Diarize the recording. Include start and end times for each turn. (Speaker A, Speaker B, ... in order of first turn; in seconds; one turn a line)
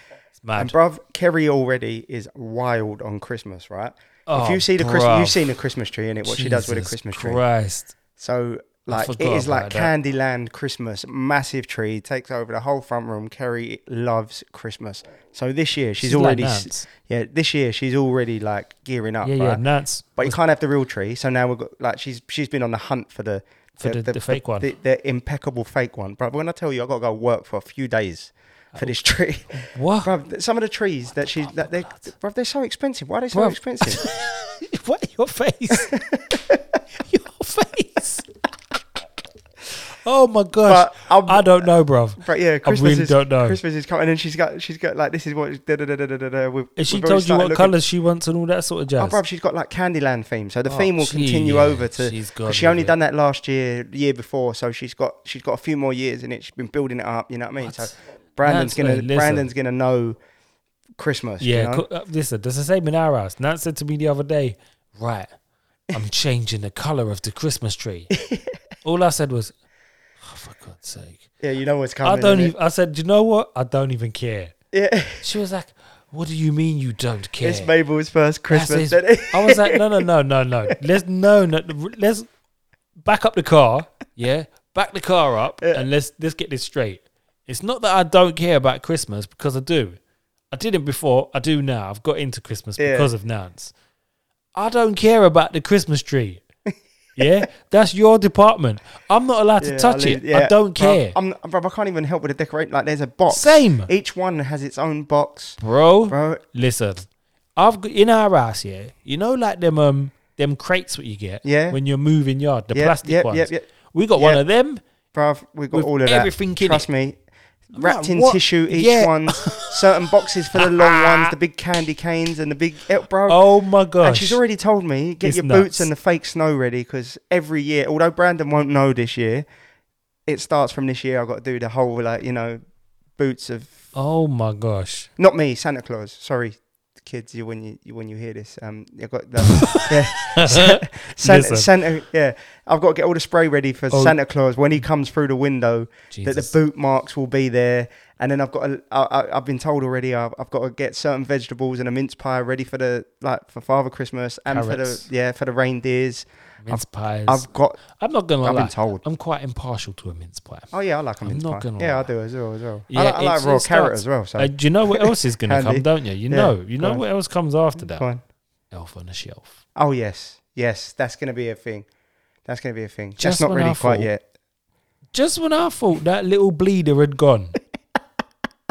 Speaker A: 0.4-0.8
Speaker B: 0.6-7.4
Speaker A: 4.3-5.4
Speaker A: 6.2-7.9
Speaker B: 8.2-19.6
Speaker A: 8.9-9.9
Speaker A: 16.0-16.9
Speaker A: 19.2-20.4
Speaker B: 20.1-34.0
Speaker A: 23.8-24.7
Speaker A: 29.5-30.1
Speaker A: 31.4-32.1
Speaker A: 33.3-35.9
Speaker B: 35.7-36.6
Speaker A: 37.0-38.2
Speaker A: 39.8-43.6
Speaker B: 40.6-41.6
Speaker B: 42.2-47.7
Speaker A: 46.8-49.2
Speaker B: 49.0-60.2
Speaker A: 50.6-52.9
Speaker A: 57.6-59.5
Speaker B: 61.0-61.8
Speaker A: 61.4-65.3
Speaker A: 65.9-68.1
Speaker B: 68.1-68.5
Speaker A: 68.8-69.5
Speaker A: 70.2-71.2
Speaker B: 71.4-72.5
Speaker A: 72.0-74.5
Speaker B: 74.7-75.2
Speaker A: 75.2-77.7
Speaker B: 77.4-79.8
Speaker A: 78.5-82.3
Speaker A: 83.0-90.0
Speaker A: 90.5-93.7
Speaker B: 92.8-93.1
Speaker A: 94.5-96.4
Speaker A: 97.2-101.2
Speaker B: 99.6-106.4
Speaker A: 103.3-103.9
Speaker A: 105.6-114.8
Speaker B: 111.4-111.8
Speaker B: 112.7-113.6
Speaker B: 114.2-114.4
Speaker B: 115.1-117.2
Speaker A: 115.7-116.8
Speaker B: 117.7-123.4
Speaker A: 117.7-119.8
Speaker A: 120.6-121.3
Speaker A: 123.3-124.4
Speaker B: 124.0-129.4
Speaker A: 125.2-125.9
Speaker B: 130.2-132.6
Speaker B: 133.2-133.8
Speaker A: 133.9-135.1
Speaker B: 135.2-157.8
Speaker A: 139.5-141.7
Speaker A: 143.9-144.2
Speaker A: 146.1-146.5
Speaker A: 154.5-155.1
Speaker A: 156.6-160.7
Speaker B: 158.4-159.0
Speaker B: 160.7-167.0
Speaker A: 161.2-162.1
Speaker A: 162.9-168.1
Speaker B: 167.8-168.2
Speaker A: 168.7-169.5
Speaker B: 169.7-171.9
Speaker B: 172.4-174.2
Speaker A: 173.2-174.1
Speaker A: 175.1-177.5